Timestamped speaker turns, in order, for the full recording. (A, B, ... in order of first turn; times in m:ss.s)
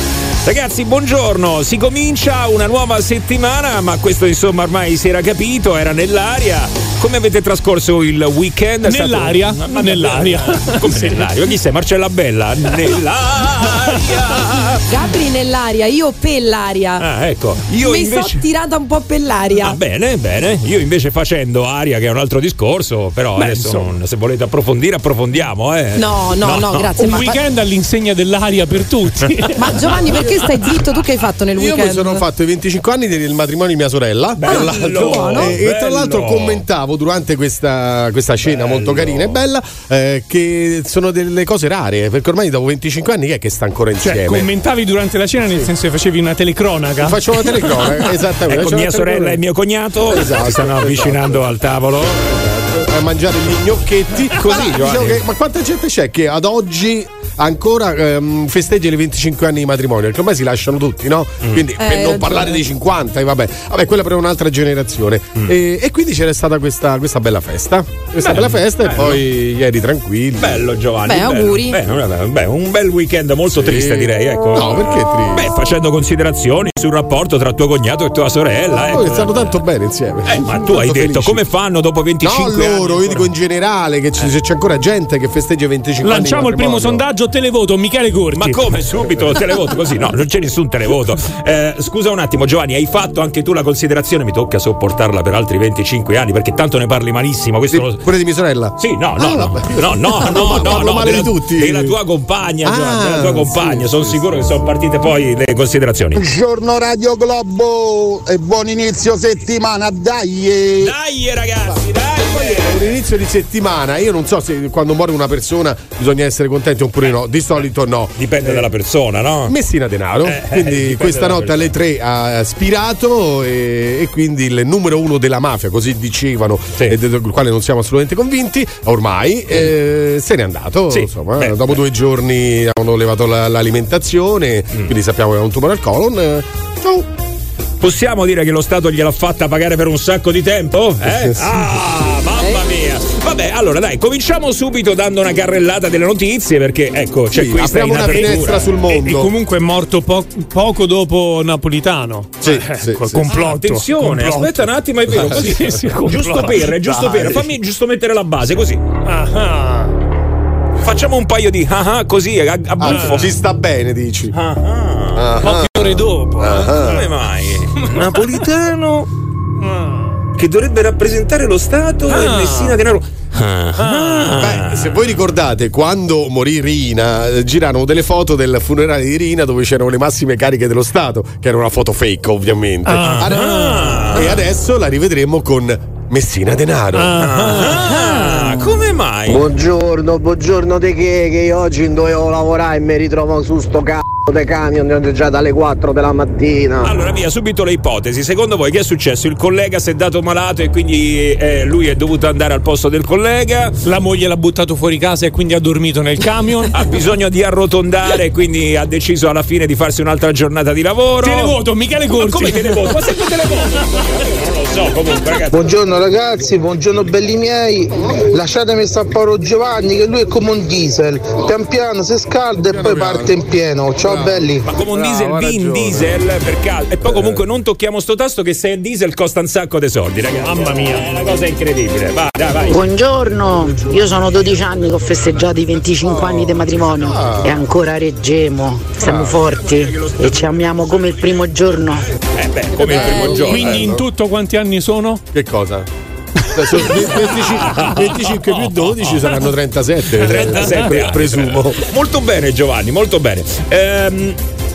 0:00.4-0:14.8 A
0:08.8-0:11.3 B
0:14.9-0:17.0 C
0:17.0-0:18.4 A
0:17.8-0:19.8 C
0:19.6-0:26.9 A
0:23.4-0:23.9 B
0:26.0-0:27.4 C
0:27.0-0:30.5 B
0:29.6-0:32.2 C
0:31.6-0:44.5 D
0:34.4-0:36.6 A
0:34.5-0:35.5 C
0:38.4-0:39.4 A
0:44.0-0:47.7 B
0:47.0-0:49.4 D
0:48.5-0:52.2 A
0:50.1-0:51.5 D
0:52.2-1:10.6 D
0:54.3-0:55.2 A
1:01.8-1:02.6 C
1:08.2-1:09.2 A
1:10.4-1:19.5 A
1:11.1-1:11.8 C
1:13.5-1:15.5 D
1:18.8-1:21.4 D
1:20.3-1:23.3 A
1:22.2-1:27.0 D
1:26.0-1:28.6 B
1:28.4-1:38.0 A
1:37.7-1:42.0 D
1:38.8-1:46.2 A
1:42.6-1:44.2 D
1:46.2-1:51.0 E
1:50.8-1:53.0 A
1:52.2-1:58.7 D
1:58.2-1:59.6 A
1:59.5-2:17.1 D
2:00.2-2:01.7 A
2:10.9-2:11.8 A
2:17.8-2:28.7 A
2:21.0-2:21.7 D
2:27.3-2:29.3 D
2:28.0-2:37.5 B
2:32.4-2:33.3 D
2:33.3-2:38.8 A
2:39.1-2:39.9 B
2:40.8-2:43.4 A
2:42.8-2:44.4 D
2:42.8-2:43.2 B
2:44.3-2:45.5 A
2:45.1-2:45.7 D
2:45.4-2:47.0 B
2:46.4-2:47.1 D
2:46.6-2:49.1 A
2:47.9-2:48.3 B
2:49.6-2:50.2 B
2:50.4-2:55.0 A
2:52.1-2:52.8 B
2:53.8-2:54.4 B
2:54.4-3:07.2 D
3:02.9-3:03.3 B
3:03.0-3:04.4 A
3:07.0-3:08.5 B
3:07.2-3:09.4 A
3:09.3-3:16.9 F
3:16.8-3:23.8 A
3:23.8-3:26.7 B
3:26.7-3:31.6 A
3:31.2-3:32.9 B
3:32.2-3:35.6 A
3:35.5-3:44.7 G
3:42.6-3:43.3 D
3:44.0-3:46.2 D
3:44.7-3:52.8 A
3:47.0-3:47.4 D
3:50.4-3:51.1 B
3:52.7-4:02.1 H
3:56.0-3:57.6 D
3:59.0-4:04.0 A
4:02.8-4:04.0 D
4:02.8-4:03.5 C
4:03.1-4:05.2 B
4:05.3-4:05.9 D
4:06.5-4:11.8 D
4:07.2-4:09.2 A
4:10.2-4:14.4 A
4:10.2-4:10.8 B